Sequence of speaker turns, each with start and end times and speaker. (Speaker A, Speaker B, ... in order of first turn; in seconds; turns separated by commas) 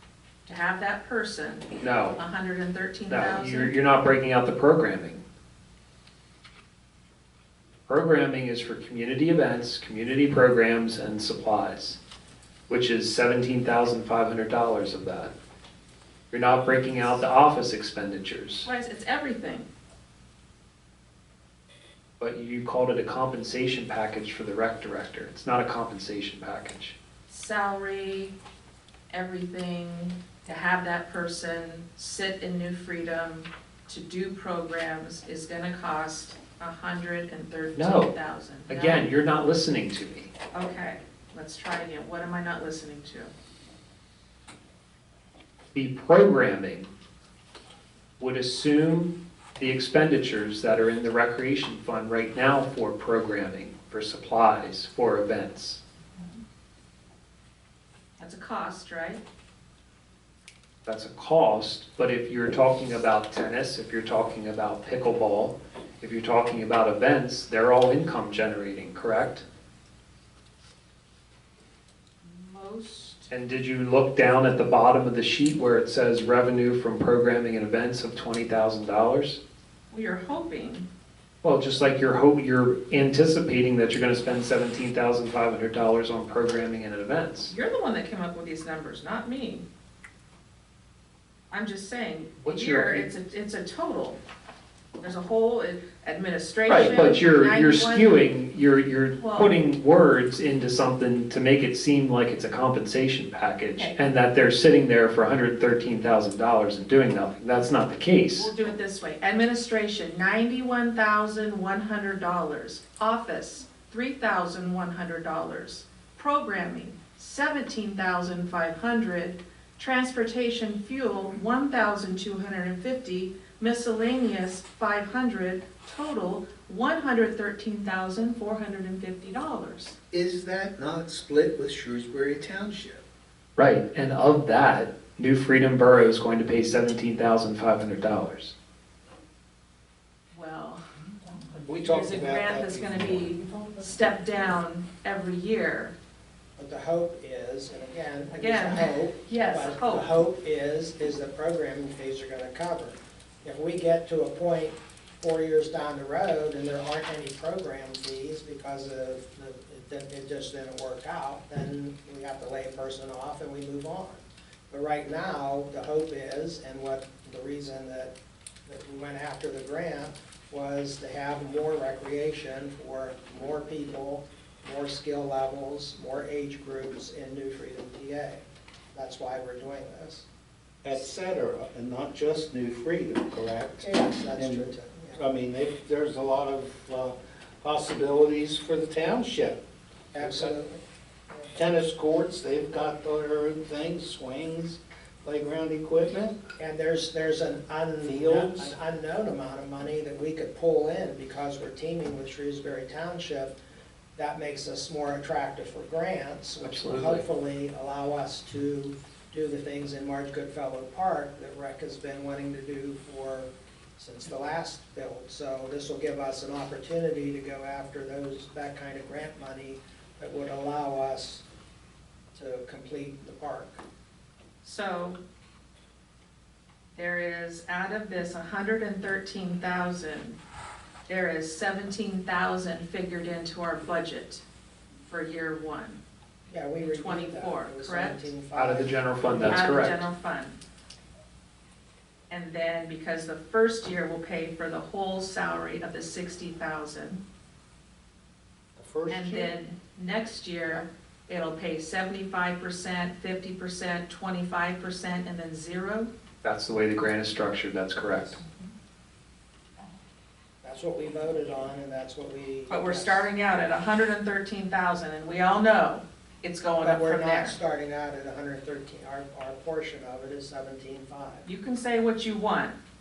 Speaker A: 0.5-3.7, Speaker B: 1.8-2.2, Speaker B: 3.1-5.2, Speaker B: 7.9-12.0, Speaker B: 12.7-15.3, Speaker B: 16.3-18.7, Speaker A: 18.6-19.7, Speaker B: 22.2-27.0, Speaker A: 27.3-28.3, Speaker A: 29.1-39.1, Speaker B: 37.8-38.1, Speaker B: 38.7-40.3, Speaker A: 40.5-43.3, Speaker B: 45.7-46.9, Speaker B: 48.2-55.8, Speaker A: 58.2-59.2, Speaker B: 60.9-69.5, Speaker A: 72.2-73.3, Speaker B: 73.3-79.4, Speaker A: 79.9-80.9, Speaker B: 81.4-87.5, Speaker A: 87.5-89.7, Speaker A: 91.5-94.2, Speaker B: 92.4-93.1, Speaker A: 95.0-98.2, Speaker B: 96.7-108.5, Speaker A: 99.2-99.5, Speaker A: 108.4-130.0, Speaker C: 130.1-133.0, Speaker B: 133.6-138.5, Speaker A: 140.3-145.9, Speaker C: 141.5-144.1, Speaker D: 146.6-168.1, Speaker A: 148.4-150.1, Speaker D: 168.7-178.4, Speaker D: 178.9-180.3, Speaker C: 180.8-189.6, Speaker D: 183.8-185.2, Speaker C: 190.1-190.6, Speaker D: 190.1-190.8, Speaker C: 191.5-196.4, Speaker D: 196.6-203.6, Speaker C: 198.1-198.8, Speaker D: 204.2-221.4, Speaker B: 206.6-207.2, Speaker D: 222.3-223.8, Speaker A: 224.6-225.2, Speaker A: 227.0-230.4, Speaker A: 231.1-234.4, Speaker A: 235.1-236.0, Speaker D: 236.5-238.9, Speaker A: 236.9-238.3, Speaker B: 238.6-240.1, Speaker A: 239.5-240.6, Speaker A: 242.3-247.2, Speaker C: 248.8-249.5, Speaker A: 249.1-256.1, Speaker B: 256.4-258.4, Speaker D: 260.6-263.3, Speaker A: 262.7-267.6, Speaker D: 266.8-271.5, Speaker A: 271.4-272.8